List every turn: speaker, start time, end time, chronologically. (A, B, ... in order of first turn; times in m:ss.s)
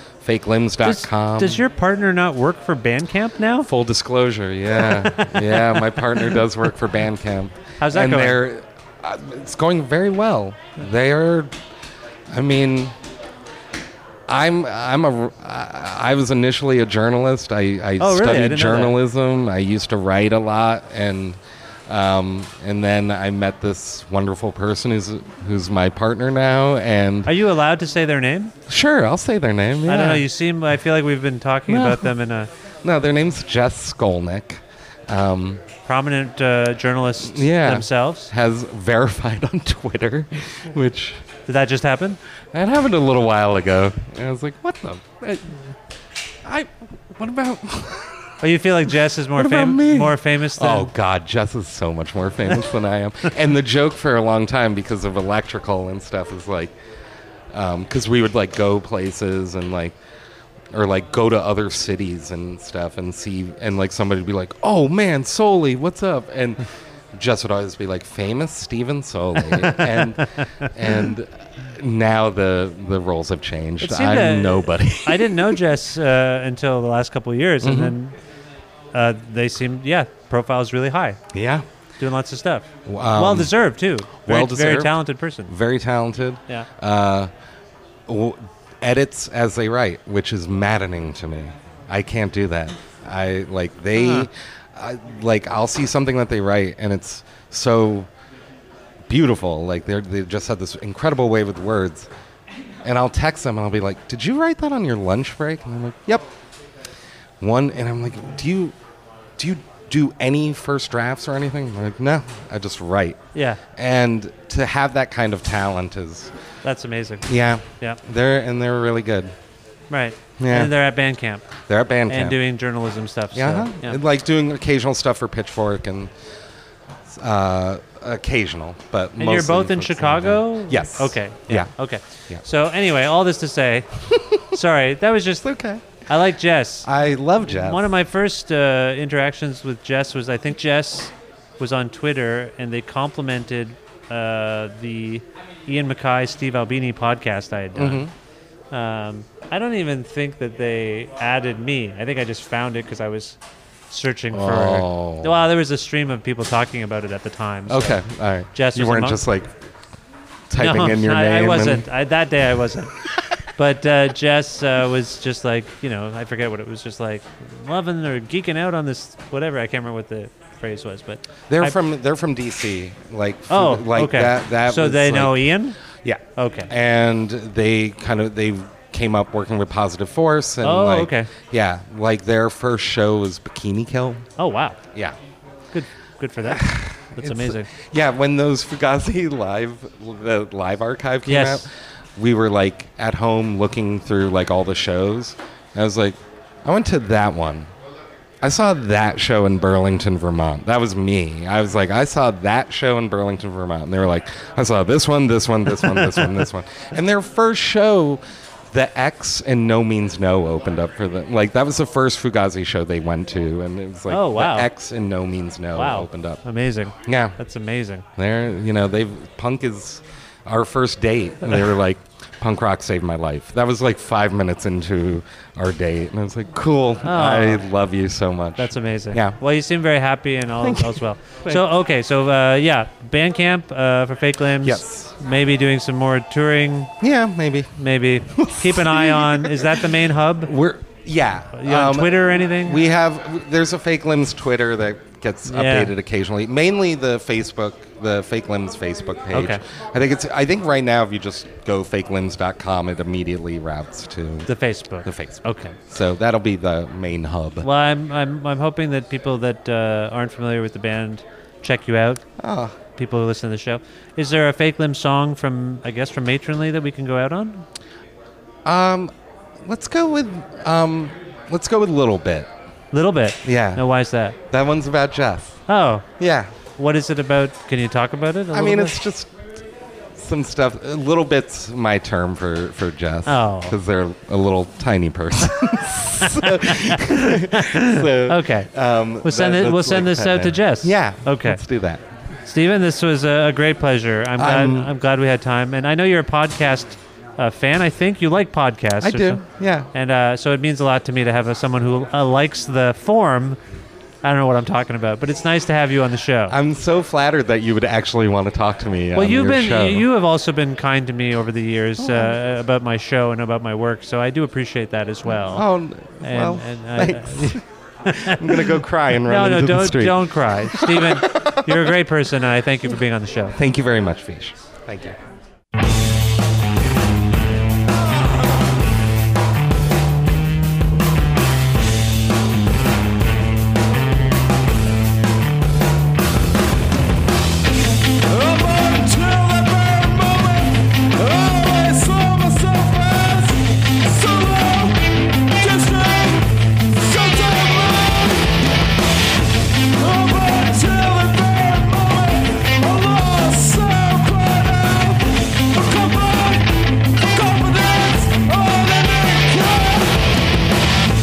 0:00.2-0:01.6 A
0:00.8-0:03.7 B
0:03.6-0:11.5 A
0:04.8-0:06.4 B
0:07.8-0:08.4 B
0:12.3-0:12.9 A
0:14.3-0:27.3 A
0:18.0-0:19.0 B
0:27.2-0:28.5 B
0:28.7-0:30.3 A
0:29.8-0:32.5 B
0:31.7-0:32.1 A
0:32.8-0:35.6 A
0:35.8-0:38.3 B
0:37.2-0:41.2 A
0:41.5-0:42.2 B
0:42.5-0:45.6 A
0:46.4-0:48.3 A
0:48.4-0:50.9 B
0:49.3-0:56.7 A
0:57.5-1:00.0 A
1:00.7-1:15.6 A
1:09.4-1:10.7 B
1:13.8-1:18.1 B
1:17.6-1:17.9 A
1:18.9-1:21.2 B
1:21.3-1:21.6 A
1:22.0-1:25.5 B
1:22.8-1:23.5 A
1:24.2-1:27.3 A
1:28.1-1:38.1 A
1:33.9-1:34.3 B
1:39.1-1:42.1 A
1:42.8-1:46.3 A
1:47.4-1:48.7 A
1:49.4-1:53.2 A
1:53.3-1:53.6 B
1:53.7-1:56.3 A
1:56.6-1:57.3 B
1:57.2-1:59.3 A
1:59.9-2:01.4 B
2:00.4-2:00.7 A
2:01.7-2:02.4 A
2:02.1-2:04.0 B
2:03.3-2:06.1 A
2:07.1-2:11.7 A
2:09.2-2:13.9 B
2:14.1-2:14.4 A
2:14.4-2:15.5 B
2:15.4-2:16.0 A
2:16.1-2:16.9 B
2:16.8-2:17.9 A
2:17.4-2:28.1 B
2:27.8-2:28.1 A
2:28.7-2:33.4 B
2:33.9-2:38.0 B
2:34.3-2:35.4 A
2:37.7-2:39.5 A
2:38.5-2:39.2 B
2:40.5-2:41.9 A
2:40.6-2:42.9 B
2:43.6-2:51.7 B
2:51.5-2:55.5 A
2:53.5-2:55.8 B
2:56.0-3:04.3 A
2:56.4-2:56.7 B
3:00.6-3:01.3 B
3:04.4-3:04.8 B
3:04.9-3:05.2 A
3:05.7-3:07.7 B
3:06.4-3:17.7 A
3:11.2-3:11.6 B
3:18.4-3:36.4 A
3:25.7-3:26.5 B
3:34.1-3:34.7 B
3:35.7-3:38.0 B
3:37.0-3:37.4 A
3:38.2-3:49.4 A
3:47.0-3:47.7 B
3:48.6-3:56.9 B
3:50.6-3:51.7 A
3:54.6-3:55.1 A
3:57.0-3:57.7 A
3:57.8-4:00.5 B
3:58.3-3:59.8 A
4:00.4-4:14.5 A
4:01.5-4:02.8 B
4:05.5-4:05.9 B
4:09.3-4:09.6 B
4:14.5-4:15.8 B
4:15.0-4:17.7 A
4:17.6-4:22.2 B
4:22.4-4:22.8 A
4:23.0-4:27.6 B
4:28.6-4:32.5 A
4:32.9-4:34.4 B
4:33.4-4:33.8 A
4:34.5-4:35.6 A
4:35.7-4:36.0 B
4:36.2-4:36.5 A
4:36.8-4:39.0 B
4:38.5-4:39.6 A
4:40.1-4:52.0 A
4:43.2-4:43.8 B
4:46.2-4:48.7 B
4:49.2-4:51.6 B
4:52.4-5:03.6 B
4:54.4-4:54.9 A
4:59.0-4:59.9 A
5:04.2-5:06.6 B
5:06.5-5:10.0 A
5:09.1-5:15.7 B
5:12.0-5:12.4 A
5:15.2-5:17.6 A
5:16.2-5:23.6 B
5:18.1-5:21.9 A
5:23.5-5:25.2 A
5:38.2-5:45.0 C
5:45.5-5:48.7 C
5:50.0-6:00.4 C